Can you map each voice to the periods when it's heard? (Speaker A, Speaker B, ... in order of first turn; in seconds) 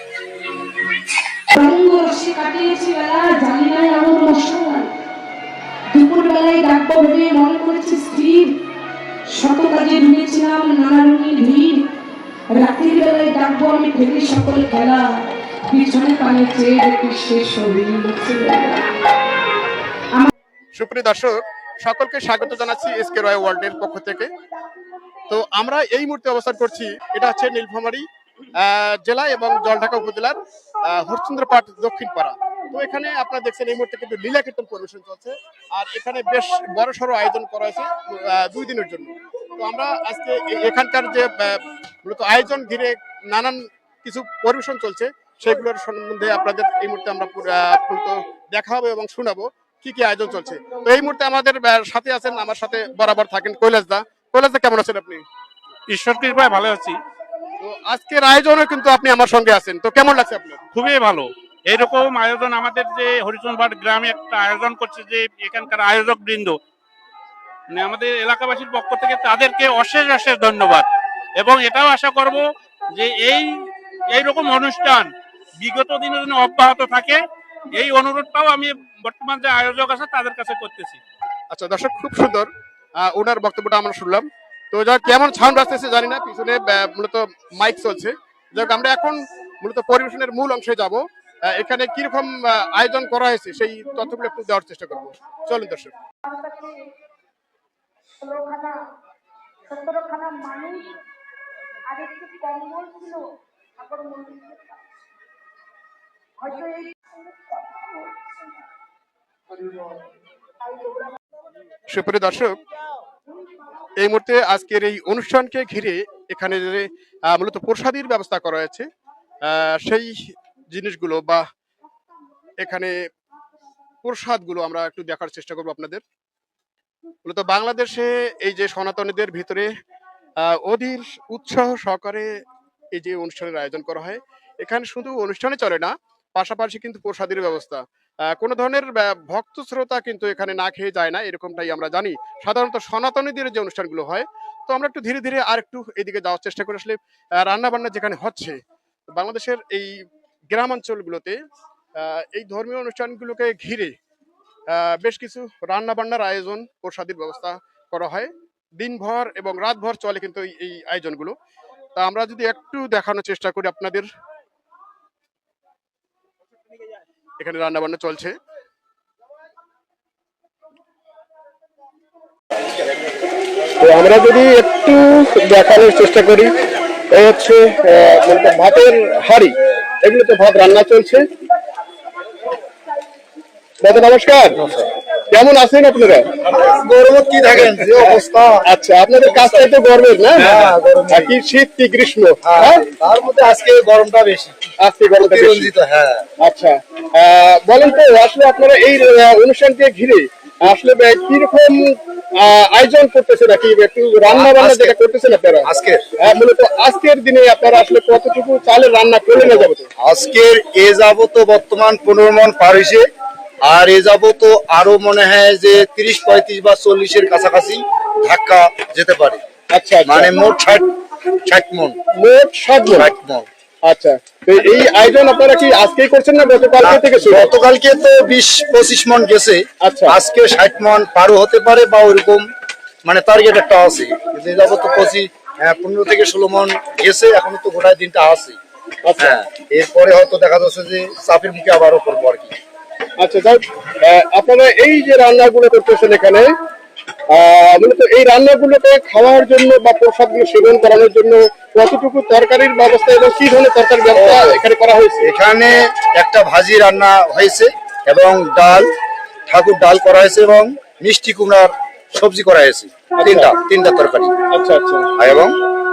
Speaker A: 1.5-4.9, 5.9-8.5, 9.3-11.8, 12.5-15.1, 15.7-18.9, 96.3-96.7, 98.2-98.7, 99.7-100.9, 101.9-103.2, 103.8-104.7, 106.4-107.0
Speaker B: 20.8-24.3, 25.3-55.2, 57.6-60.6, 81.5-95.9, 111.9-112.6, 114.0-118.9, 119.4-120.1, 120.7-121.5, 122.6-123.0, 124.0-126.0, 127.2-129.7, 130.4-132.3, 132.9-148.6, 149.1-151.4, 152.0-153.9, 154.7-161.4, 162.0-164.1, 167.4-168.3, 173.8-176.5, 177.1-181.3, 183.8-184.6, 185.3-186.3, 187.7-192.8, 194.8-195.7, 196.4-205.7, 206.2-209.9, 219.7-220.3, 222.2-223.1, 223.8-227.5, 229.8-230.2, 239.1-239.4, 243.2-246.5, 247.3-255.3, 263.2-263.5, 264.5-265.1
Speaker C: 55.9-57.0, 60.7-66.6, 67.7-70.9, 71.4-72.4, 72.9-77.2, 77.8-81.0
Speaker D: 184.6-184.9, 186.4-188.6, 189.2-189.7, 190.3-191.3, 192.4-194.6, 195.2-196.3, 204.2-204.9, 205.6-206.2, 209.3-213.1, 213.6-219.4, 220.1-220.9, 221.4-222.0, 222.9-223.5, 226.8-232.4, 233.1-238.6, 239.2-242.6, 254.1-254.6, 255.2-258.9, 259.5-264.4, 265.2-265.6